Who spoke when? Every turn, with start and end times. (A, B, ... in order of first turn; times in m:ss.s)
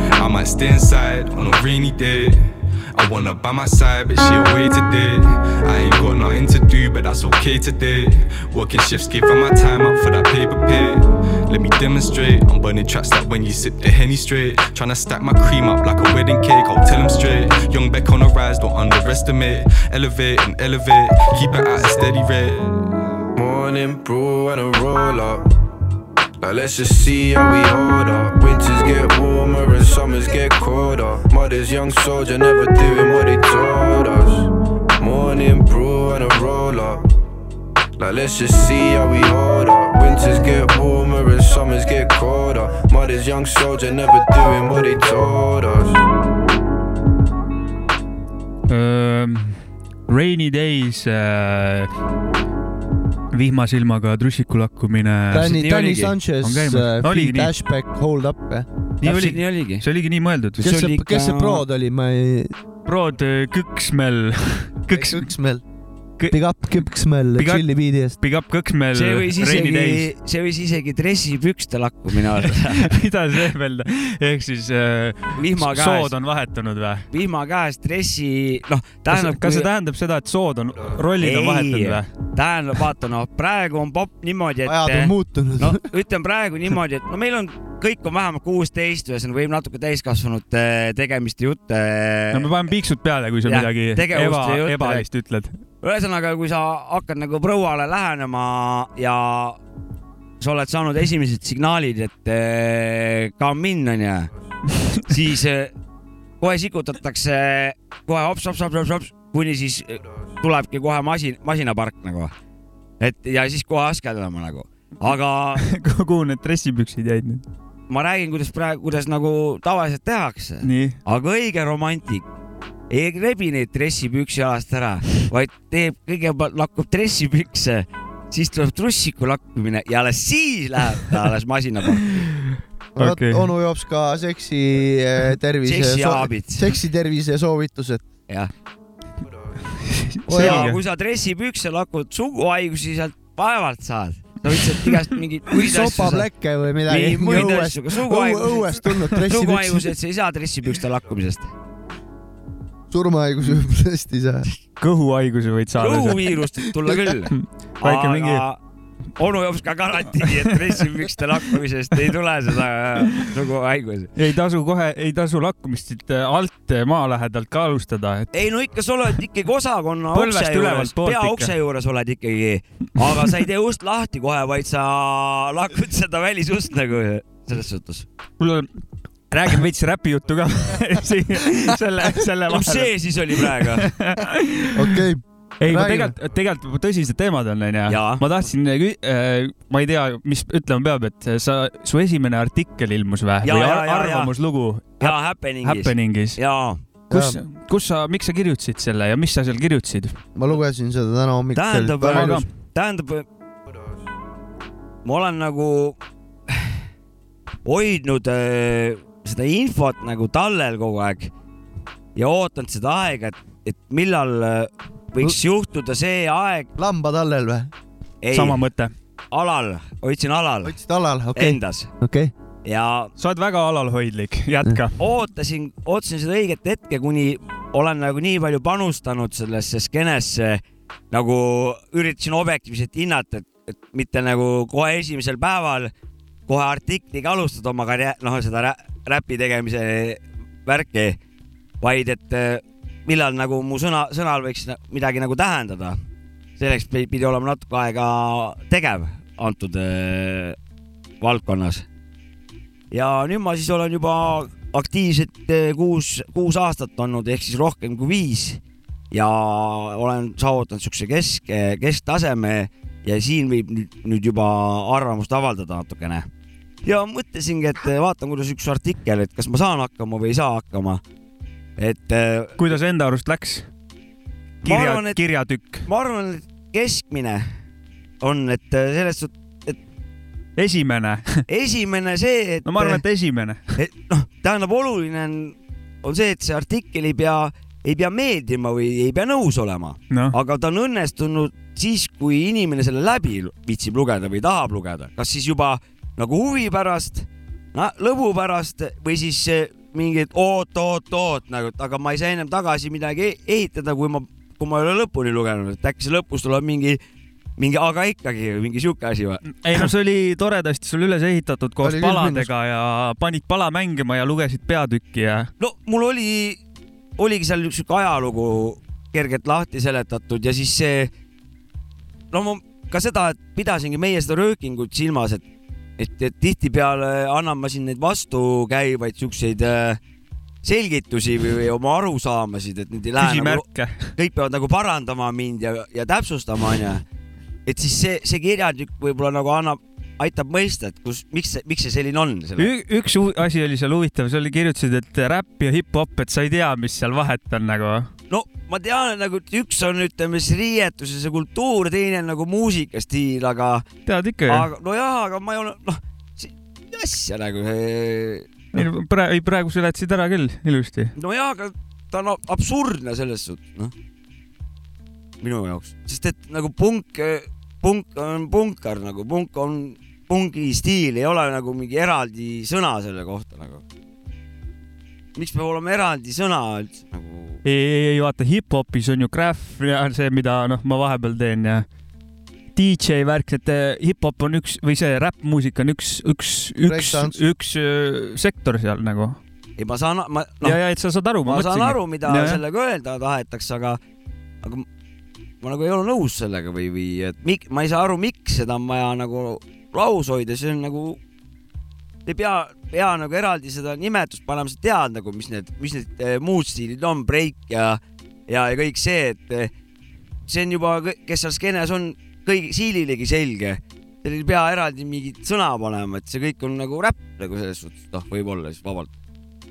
0:00.2-0:22.8 A
0:23.4-0:25.4 B
0:26.4-0:37.1 B
0:38.0-0:46.0 B
0:48.7-0:51.9 C
0:53.3-0:55.7 C
0:55.3-0:58.6 D
0:55.4-0:56.1 E
0:56.4-0:57.6 C
0:59.0-1:00.6 C
0:59.0-0:59.8 E
1:00.6-1:01.6 E
1:00.6-1:02.5 D
1:02.8-1:05.3 C
1:04.9-1:05.6 D
1:06.2-1:06.8 C
1:06.3-1:08.2 D
1:07.4-1:10.1 C
1:08.9-1:13.0 E
1:12.2-1:17.0 C
1:15.3-1:16.1 E
1:17.1-1:19.7 E
1:19.1-1:22.1 C
1:21.1-1:32.5 E
1:24.6-1:25.8 D
1:32.3-1:35.6 C
1:33.4-1:35.0 E
1:35.8-1:39.6 E
1:40.4-1:44.3 E
1:45.0-1:45.7 E
1:46.4-1:52.3 E
1:53.0-1:55.7 E
1:55.6-1:57.4 C
1:57.9-2:02.2 E
2:00.6-2:01.0 C
2:02.9-2:12.0 E
2:12.2-2:13.5 C
2:13.0-2:18.1 D
2:15.6-2:16.7 E
2:19.9-2:20.8 C
2:20.3-2:20.7 D
2:20.3-2:26.2 E
2:25.6-2:29.9 D
2:26.9-2:31.5 E
2:32.9-2:34.4 D
2:34.8-2:36.3 C
2:35.8-2:38.6 E
2:37.3-2:38.4 C
2:39.2-2:44.1 E
2:40.2-2:40.8 C
2:44.2-2:48.3 C
2:48.3-2:58.0 E
2:50.1-2:51.5 C
2:58.4-3:05.0 C
3:02.4-3:03.9 E
3:04.8-3:06.1 D
3:05.6-3:16.4 C
3:07.9-3:08.5 E
3:13.4-3:14.3 E
3:15.0-3:16.8 E
3:17.1-3:20.1 C
3:17.1-3:17.4 D
3:20.3-3:22.4 D
3:21.5-3:23.3 E
3:22.2-3:22.4 C
3:25.0-3:26.8 E
3:27.6-3:31.3 E
3:32.1-3:36.7 E
3:36.8-3:37.7 D
3:38.2-3:38.6 E
3:38.3-3:38.9 C
3:39.3-3:40.8 E
3:40.6-3:42.3 D
3:41.3-3:41.9 E
3:42.6-3:43.1 E
3:43.2-3:45.0 C
3:45.0-3:55.9 E
3:56.5-4:01.2 E
4:01.8-4:06.0 E
4:06.6-4:10.6 E
4:11.2-4:11.8 E
4:12.9-4:26.3 E
4:26.8-4:31.0 E
4:31.8-4:32.6 E
4:32.6-4:33.7 C
4:34.6-4:35.8 C
4:34.6-4:35.2 E
4:35.8-4:37.5 E
4:38.2-4:39.8 E
4:40.6-4:41.4 C
4:41.5-4:43.0 E
4:42.6-4:43.8 C
4:43.8-5:07.0 E
4:50.1-4:50.3 C
5:07.6-5:09.8 E
5:09.4-5:15.5 C
5:11.8-5:12.5 D
5:15.6-5:16.6 E
5:17.2-5:21.1 E
5:22.3-5:25.4 E
5:26.0-5:30.0 E
5:30.6-5:37.0 E
5:33.2-5:34.1 C
5:37.6-5:42.7 E
5:42.6-5:48.1 C
5:48.3-5:53.8 E
5:54.0-5:54.7 C
5:54.5-5:58.8 E
5:58.7-6:01.1 C
6:01.1-6:03.9 E
6:05.4-6:13.8 E
6:15.3-6:17.6 E
6:17.6-6:21.9 C
6:22.7-6:29.4 C
6:26.8-6:27.4 D
6:29.8-6:30.8 E
6:30.6-6:32.6 C
6:31.4-6:34.0 E
6:35.6-6:41.2 E
6:42.2-6:49.7 E
6:50.5-6:59.1 E